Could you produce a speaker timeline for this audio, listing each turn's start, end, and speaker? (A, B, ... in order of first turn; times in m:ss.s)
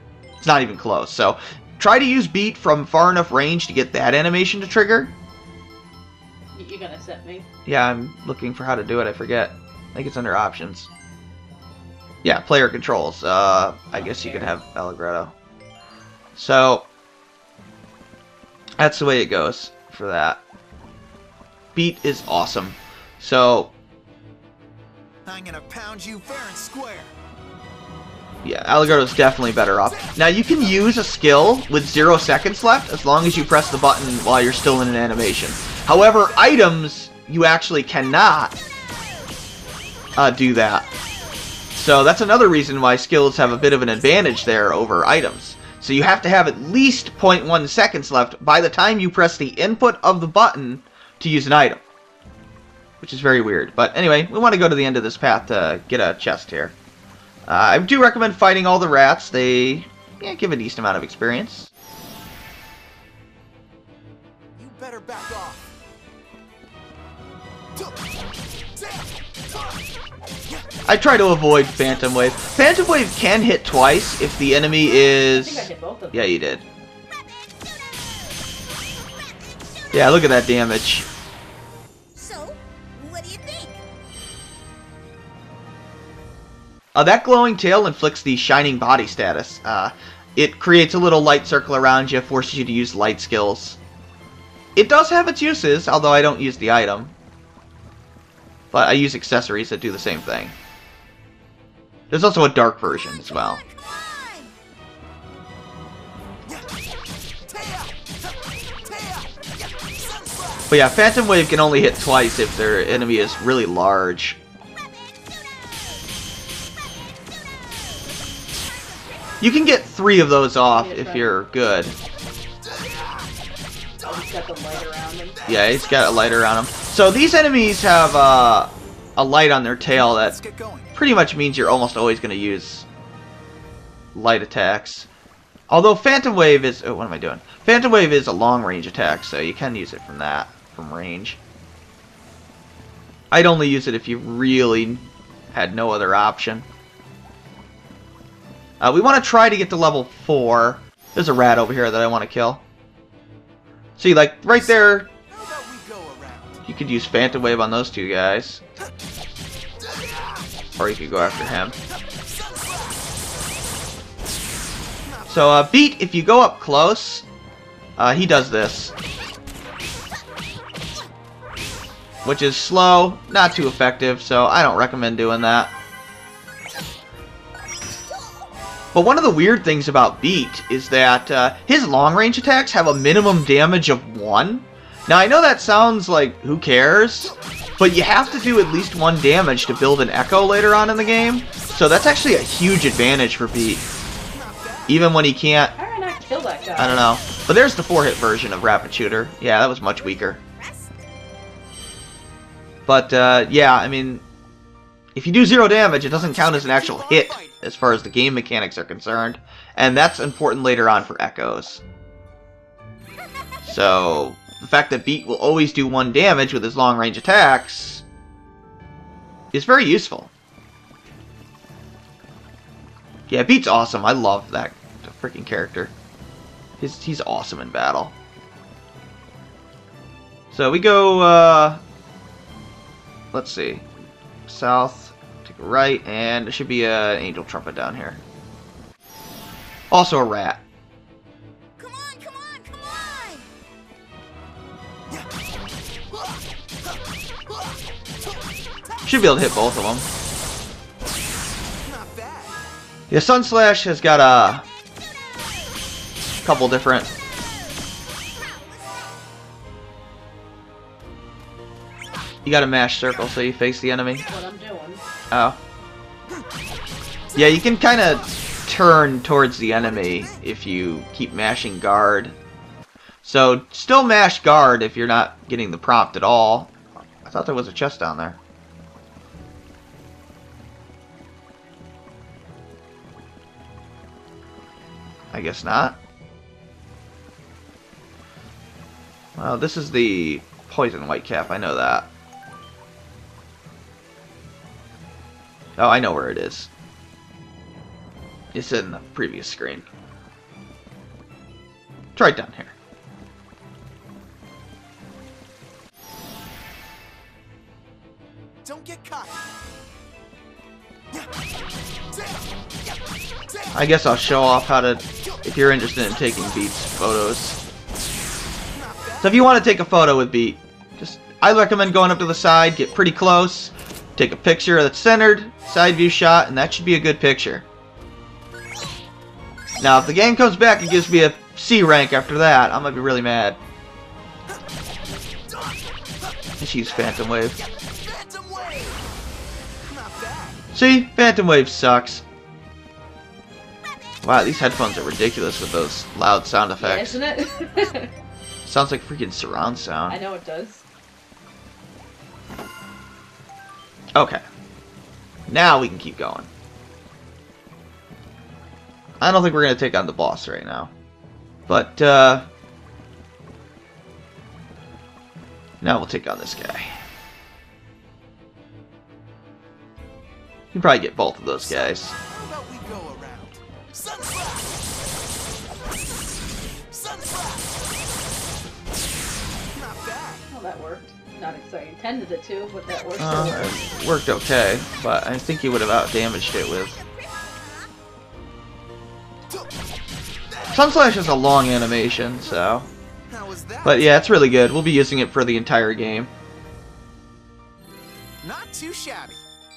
0:00.4-0:05.1 A
0:06.5-0:07.5 B
0:07.7-0:10.9 A
0:12.2-0:15.3 A
0:13.9-0:14.5 B
0:16.4-0:16.9 A
0:18.8-0:20.4 A
0:21.8-0:23.7 A
0:25.3-0:27.2 C
0:28.4-0:38.6 A
0:40.2-0:40.9 A
0:41.7-0:51.8 A
0:53.0-0:56.8 A
0:57.5-1:01.7 A
1:04.6-1:05.7 C
1:07.8-1:08.2 C
1:08.7-1:09.8 C
1:10.9-1:16.6 A
1:15.1-1:16.4 B
1:17.6-1:20.4 D
1:19.9-1:21.1 A
1:22.1-1:23.8 D
1:26.9-1:33.8 A
1:34.8-1:37.2 A
1:38.7-1:40.6 A
1:42.1-1:43.6 A
1:42.9-1:44.6 D
1:47.4-1:50.7 C
1:50.7-1:54.4 A
1:57.8-1:59.5 D
1:59.4-2:02.0 A
2:00.7-2:01.4 B
2:02.7-2:03.3 C
2:04.1-2:05.4 B
2:05.5-2:10.4 A
2:10.0-2:11.0 C
2:11.0-2:12.9 A
2:14.2-2:15.1 A
2:15.7-2:21.4 A
2:23.3-2:26.7 A
2:28.8-2:32.6 A
2:34.0-2:35.1 A
2:34.5-2:36.6 C
2:36.7-2:38.6 A
2:39.8-2:40.5 C
2:40.8-2:41.8 A
2:41.9-2:43.2 C
2:45.0-2:45.3 C
2:45.3-2:47.2 A
2:48.0-2:48.9 A
2:52.2-2:55.7 A
2:58.0-2:58.5 D
2:58.9-3:13.8 A
3:14.3-3:15.0 C
3:14.9-3:15.8 A
3:15.8-3:17.1 B
3:16.8-3:20.4 A
3:19.9-3:21.1 D
3:22.9-3:24.2 A
3:25.2-3:31.8 A
3:26.2-3:27.6 C
3:33.6-3:38.0 A
3:39.5-3:40.3 A
3:43.3-3:45.9 A
3:46.8-3:48.2 A
3:50.5-3:51.8 A
3:53.3-3:53.9 A
3:54.5-3:58.2 A
3:59.9-4:00.6 A
4:01.8-4:03.5 D
4:06.1-4:08.4 C
4:09.1-4:10.1 A
4:11.8-4:12.6 C
4:13.1-4:14.7 A
4:16.4-4:17.1 A
4:17.3-4:19.2 D
4:22.4-4:24.3 A
4:24.3-4:25.0 B
4:25.3-4:25.6 A
4:27.3-4:28.3 C
4:27.4-4:32.4 A
4:29.7-4:30.5 C
4:33.2-4:38.4 A
4:45.3-4:46.0 A
4:49.4-4:52.1 A
4:55.8-4:56.7 A
4:58.5-4:59.9 A
5:02.2-5:02.8 A
5:08.6-5:09.4 C
5:12.1-5:13.9 C
5:13.7-5:17.6 A
5:18.7-5:19.4 C
5:19.2-5:27.7 A
5:29.8-5:33.6 A
5:35.5-5:36.3 C
5:36.6-5:37.6 A
5:36.9-5:39.0 C
5:39.8-5:40.6 C
5:40.7-5:42.2 A
5:44.2-5:47.2 A
5:46.8-5:48.1 B
5:48.6-5:50.2 A
5:50.1-5:50.8 B
5:54.2-5:54.4 A
5:55.5-5:56.5 A
5:59.2-6:00.9 A
6:01.7-6:02.5 A
6:05.8-6:07.0 A
6:10.7-6:12.1 A
6:11.6-6:15.1 C
6:16.9-6:17.8 C
6:19.7-6:20.5 C
6:20.5-6:23.8 B
6:23.2-6:26.9 A
6:23.3-6:24.2 D
6:26.9-6:27.9 D
6:30.7-6:32.9 A
6:33.3-6:34.3 C
6:33.8-6:36.3 A
6:38.4-6:39.4 C